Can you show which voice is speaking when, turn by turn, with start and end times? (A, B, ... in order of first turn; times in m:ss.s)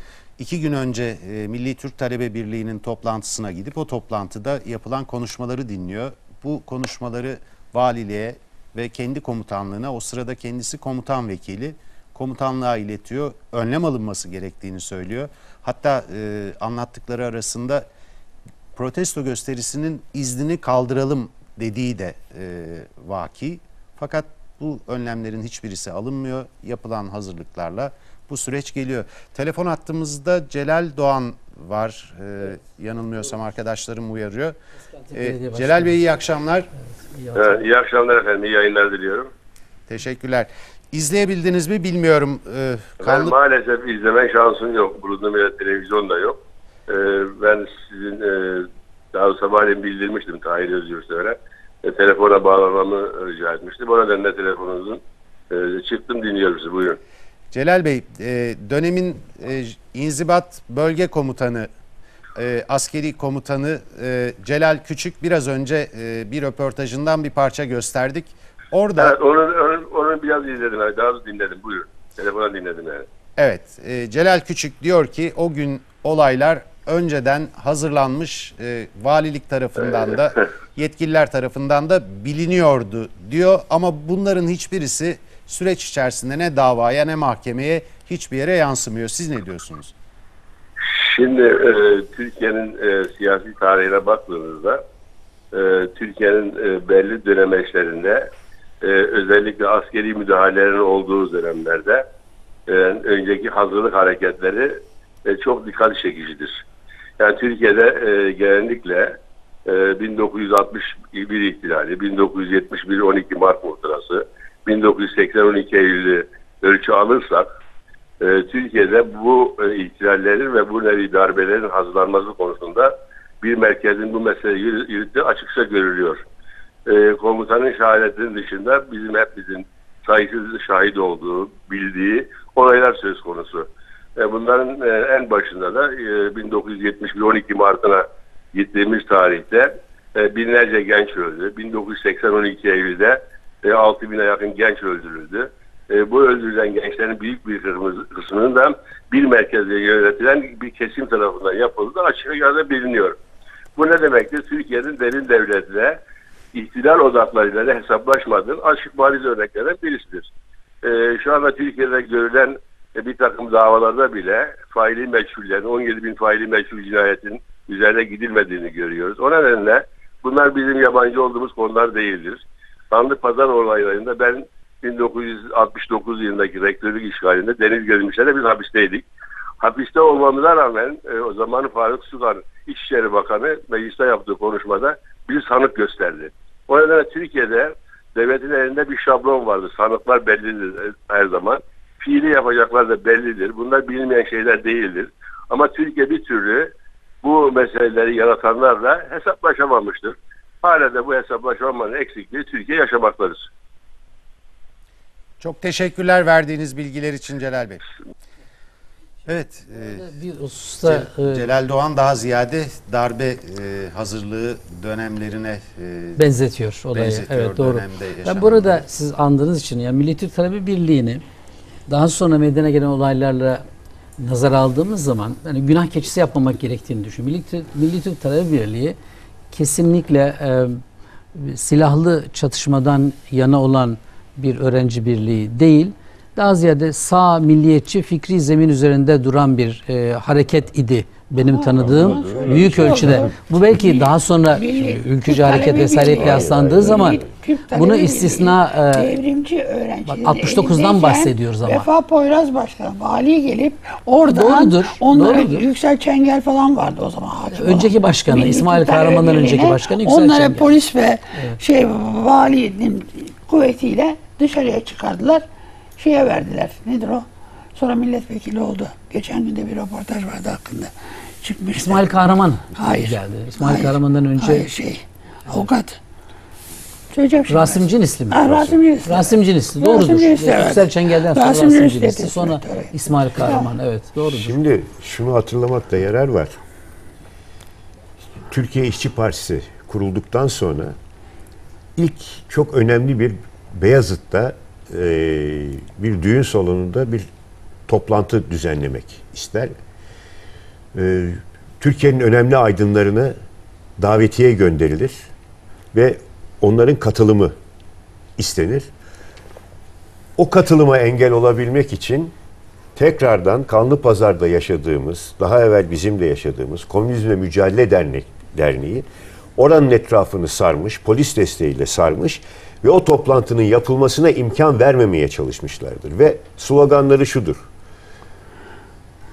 0:00.4-0:17.8 A
0:18.7-0:34.6 A
0:35.1-0:36.0 B
0:35.1-0:36.7 A
0:37.0-0:37.6 B
0:37.3-0:39.3 C
0:39.9-0:43.3 A
0:43.0-0:57.0 C
0:57.5-1:01.7 A
1:02.3-1:09.1 A
1:09.0-1:13.0 C
1:13.4-1:29.9 A
1:30.8-1:34.8 C
1:35.5-1:38.3 C
1:38.8-1:42.0 C
1:42.7-1:46.6 C
1:47.2-1:57.5 C
1:58.2-2:06.2 C
2:06.8-2:33.2 C
2:33.8-2:36.0 C
2:36.5-2:40.3 C
2:40.8-2:59.0 C
2:59.6-3:16.7 C
3:17.2-3:23.5 C
3:25.4-3:27.8 A
3:29.2-3:30.1 A
3:30.0-3:31.4 B
3:30.8-3:36.2 A
3:36.2-3:41.2 B
3:36.9-3:38.8 A
3:41.9-3:43.6 B
3:44.2-3:49.0 B
3:49.5-3:50.8 B
3:51.3-4:09.1 B
4:01.4-4:25.4 D
4:02.0-4:03.2 E
4:06.2-4:07.2 E
4:10.1-4:11.9 B
4:14.3-4:15.6 B
4:17.5-4:20.7 B
4:26.0-4:32.1 D
4:31.7-4:34.7 B
4:32.7-4:36.0 D
4:37.1-4:43.7 D
4:37.5-4:38.5 B
4:38.5-4:38.8 E
4:39.0-4:44.6 B
4:44.3-4:46.5 E
4:48.5-4:51.0 E
4:52.0-4:57.3 E
4:57.9-4:59.7 E
5:00.9-5:03.3 E
5:04.0-5:05.2 E
5:05.9-5:07.5 E
5:08.4-5:08.9 E
5:10.4-5:12.3 E
5:13.0-5:19.0 E
5:19.6-5:27.6 E